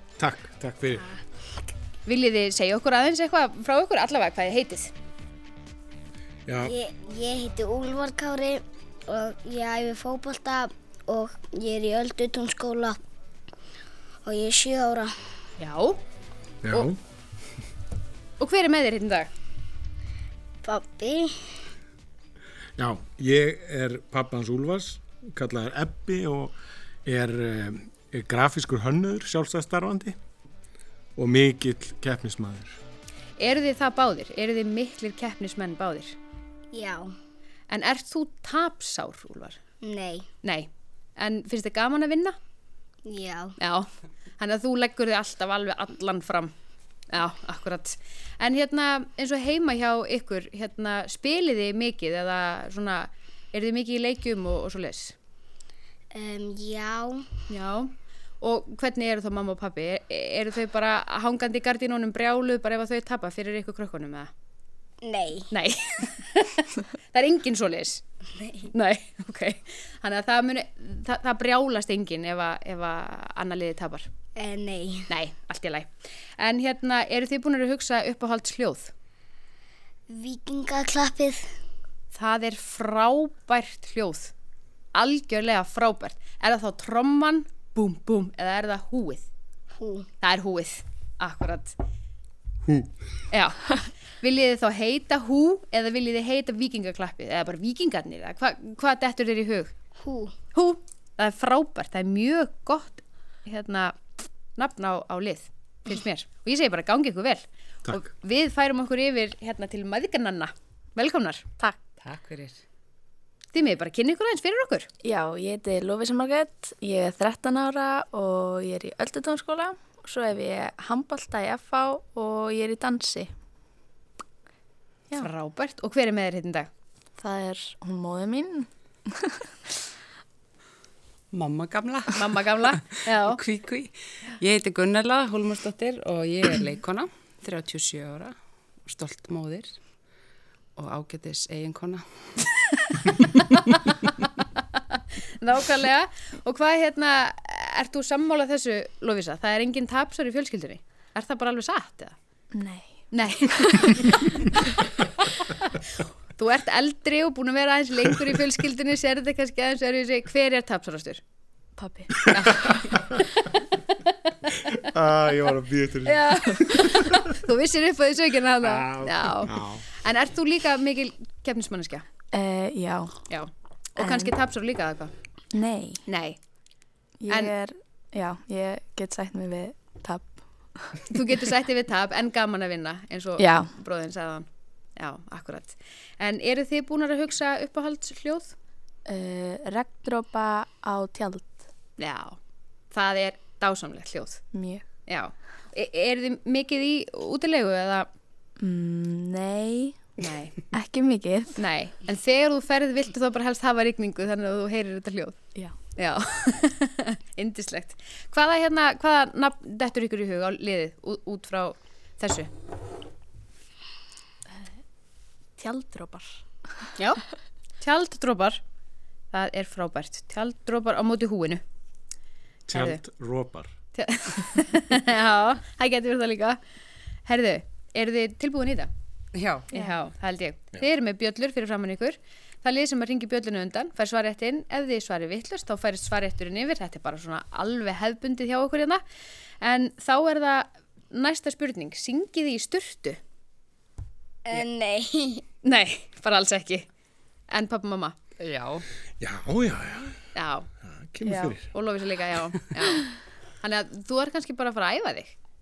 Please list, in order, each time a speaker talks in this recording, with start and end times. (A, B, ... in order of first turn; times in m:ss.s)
0:00.2-0:01.0 A
0:00.9-0:01.2 B
0:02.0-0:04.9 C
0:06.5-0:06.7 A
0:06.6-0:13.0 B
0:14.2-0:15.1 B
0:15.6-0:16.0 C
0:16.6-0:17.0 A
0:18.4-0:19.3 C
0:20.6-0:21.3 B
0:22.8-0:26.5 A
0:27.0-0:30.2 A
0:31.2-0:32.8 A
0:33.4-0:36.2 C
0:36.7-0:37.1 B
0:37.7-0:39.6 C
0:39.8-0:40.3 B
0:40.4-0:42.4 C
0:43.0-0:43.6 B
0:43.6-0:46.5 C
0:47.1-0:55.1 C
0:56.1-0:57.3 B
0:57.5-1:04.3 C
1:05.0-1:05.5 B
1:05.5-1:08.0 C
1:08.7-1:14.1 C
1:14.4-1:15.1 B
1:15.1-1:18.9 C
1:20.1-1:21.5 B
1:22.1-1:24.3 C
1:24.9-1:29.2 C
1:29.7-1:30.1 B
1:30.2-1:31.8 C
1:33.3-1:33.7 C
1:34.2-1:39.7 C
1:40.0-1:40.3 B
1:40.5-1:44.0 C
1:44.6-1:51.5 C
1:52.0-1:52.6 D
1:53.5-1:54.9 C
1:55.0-2:03.3 E
2:05.2-2:06.7 C
2:07.2-2:08.7 E
2:11.3-2:19.8 D
2:12.1-2:13.4 C
2:20.8-2:22.2 D
2:24.9-2:32.2 C
2:32.5-2:34.1 E
2:33.1-2:34.5 C
2:35.5-2:41.2 C
2:41.8-2:42.2 E
2:42.3-2:44.7 C
2:44.7-2:47.3 A
2:46.0-2:52.0 C
2:48.6-2:49.8 A
2:52.3-2:53.2 E
2:53.3-2:55.1 C
2:54.0-2:54.3 E
2:55.5-2:56.0 E
2:56.0-2:56.4 C
2:57.2-3:01.0 E
3:01.1-3:04.4 C
3:03.4-3:03.7 E
3:05.0-3:08.5 C
3:09.1-3:11.6 E
3:12.0-3:12.4 C
3:12.9-3:14.4 C
3:14.5-3:14.8 E
3:15.1-3:18.1 C
3:18.6-3:20.0 E
3:20.2-3:20.6 C
3:20.7-3:21.6 E
3:21.6-3:25.4 C
3:26.0-3:32.5 C
3:35.6-3:36.4 E
3:37.8-3:38.6 C
3:39.3-3:41.6 C
3:42.7-3:43.7 A
3:42.7-3:43.0 C
3:43.9-3:46.6 C
3:47.2-3:48.9 C
3:49.3-3:49.7 D
3:49.7-3:59.0 C
3:59.6-4:03.2 C
4:04.4-4:05.4 B
4:05.6-4:06.9 C
4:07.5-4:08.2 C
4:08.4-4:08.8 D
4:09.2-4:10.2 A
4:10.3-4:10.7 C
4:10.8-4:11.7 A
4:11.2-4:13.1 C
4:13.6-4:15.4 C